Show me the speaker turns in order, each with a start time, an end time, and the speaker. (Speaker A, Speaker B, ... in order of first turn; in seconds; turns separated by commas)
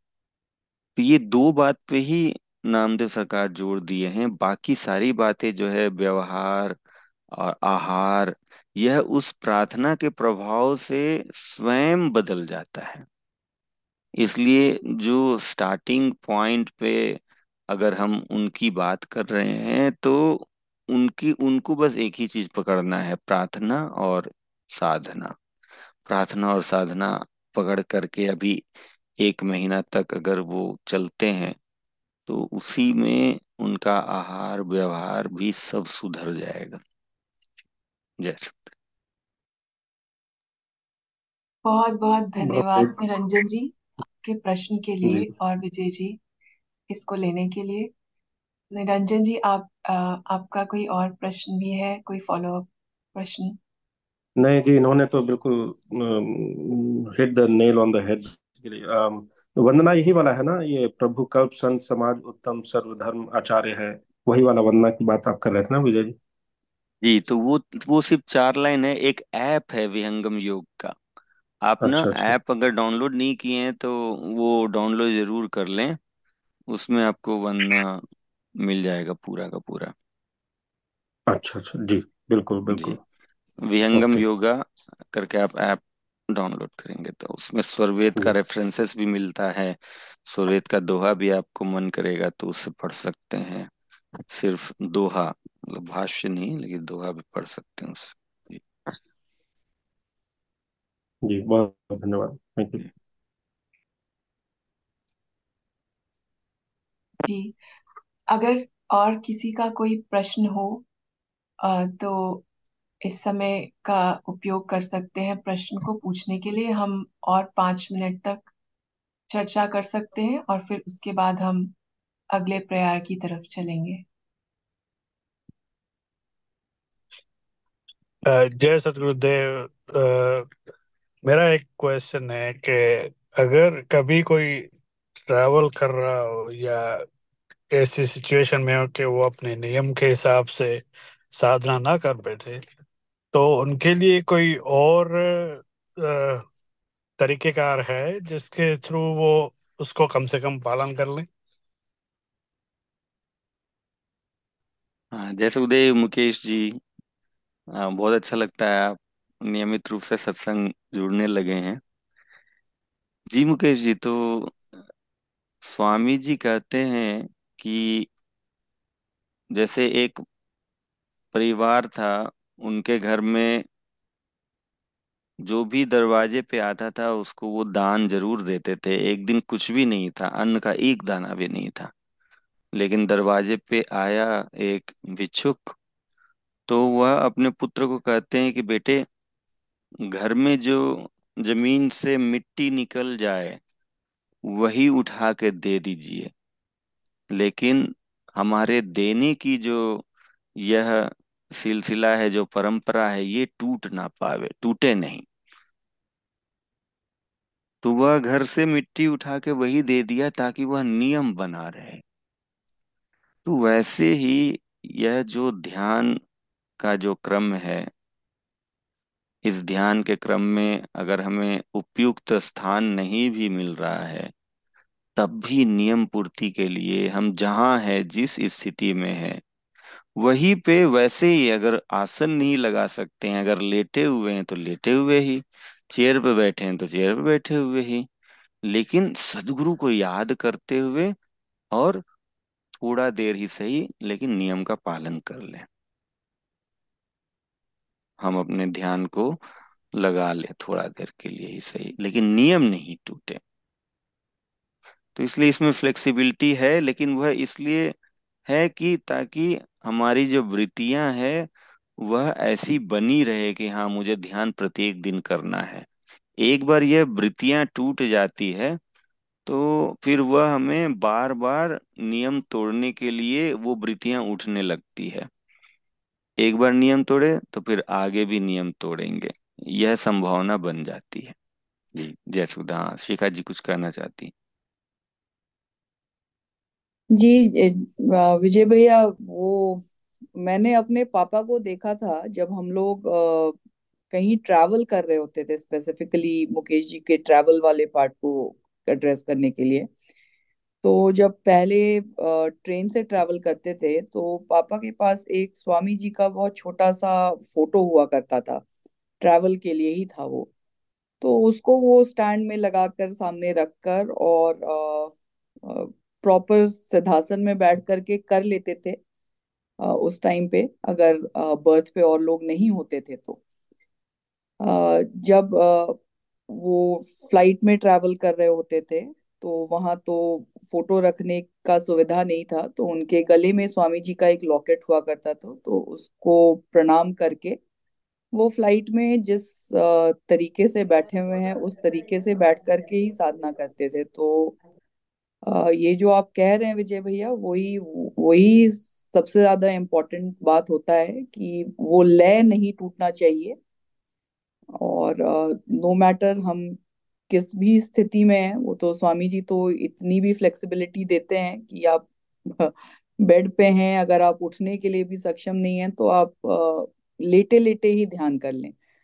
Speaker A: 0.9-6.8, Speaker A: 7.3-13.1, Speaker A: 14.2-17.2, Speaker A: 17.7-25.3, Speaker A: 26.1-28.6, Speaker A: 29.2-31.6, Speaker A: 32.3-36.8, Speaker A: 38.2-38.7, Speaker B: 41.6-46.2, Speaker C: 42.4-42.9, Speaker C: 45.0-45.3, Speaker B: 46.9-47.9, Speaker B: 48.7-53.6, Speaker C: 54.4-66.2, Speaker A: 67.0-71.0, Speaker A: 71.6-76.0, Speaker C: 71.8-72.3, Speaker A: 76.7-78.0, Speaker A: 78.6-79.9, Speaker C: 81.3-83.0, Speaker A: 82.7-83.0, Speaker A: 83.7-93.7, Speaker C: 83.9-84.2, Speaker A: 94.3-98.6, Speaker C: 101.2-102.8, Speaker B: 107.2-107.5, Speaker B: 108.3-110.8, Speaker B: 111.6-112.4, Speaker B: 113.0-118.5, Speaker B: 119.3-121.7, Speaker B: 122.3-124.0, Speaker D: 128.3-130.5, Speaker D: 131.2-134.7, Speaker D: 135.3-137.1, Speaker D: 137.7-142.6, Speaker D: 143.3-146.4, Speaker D: 147.2-151.3, Speaker A: 155.1-156.8, Speaker A: 157.8-161.8, Speaker A: 163.3-164.6, Speaker A: 165.6-168.1, Speaker A: 169.5-170.2, Speaker A: 171.3-173.6, Speaker A: 175.4-181.9, Speaker A: 182.7-185.8, Speaker A: 186.7-189.0, Speaker A: 190.1-193.6, Speaker A: 194.5-196.3, Speaker A: 197.3-200.0, Speaker A: 200.6-205.2, Speaker A: 207.8-212.0, Speaker A: 213.4-216.2, Speaker A: 216.8-217.9, Speaker A: 219.4-224.3, Speaker A: 225.2-229.4, Speaker A: 230.2-238.1, Speaker A: 238.7-241.2, Speaker A: 241.7-242.0, Speaker A: 242.8-245.7, Speaker A: 248.2-249.4, Speaker A: 250.0-253.4, Speaker A: 255.1-257.9, Speaker A: 258.5-261.5, Speaker A: 262.0-265.9, Speaker A: 266.4-268.8, Speaker A: 269.4-275.3, Speaker A: 276.4-281.3, Speaker A: 281.9-284.3, Speaker E: 287.1-289.8, Speaker E: 290.4-293.5, Speaker E: 294.1-299.9, Speaker E: 300.8-308.6, Speaker E: 309.2-310.5, Speaker E: 311.2-315.1, Speaker E: 315.7-319.0, Speaker E: 319.8-323.4, Speaker E: 324.6-326.0, Speaker E: 326.5-337.6, Speaker E: 338.3-344.6, Speaker E: 345.4-353.6, Speaker E: 354.8-356.8, Speaker E: 357.3-368.7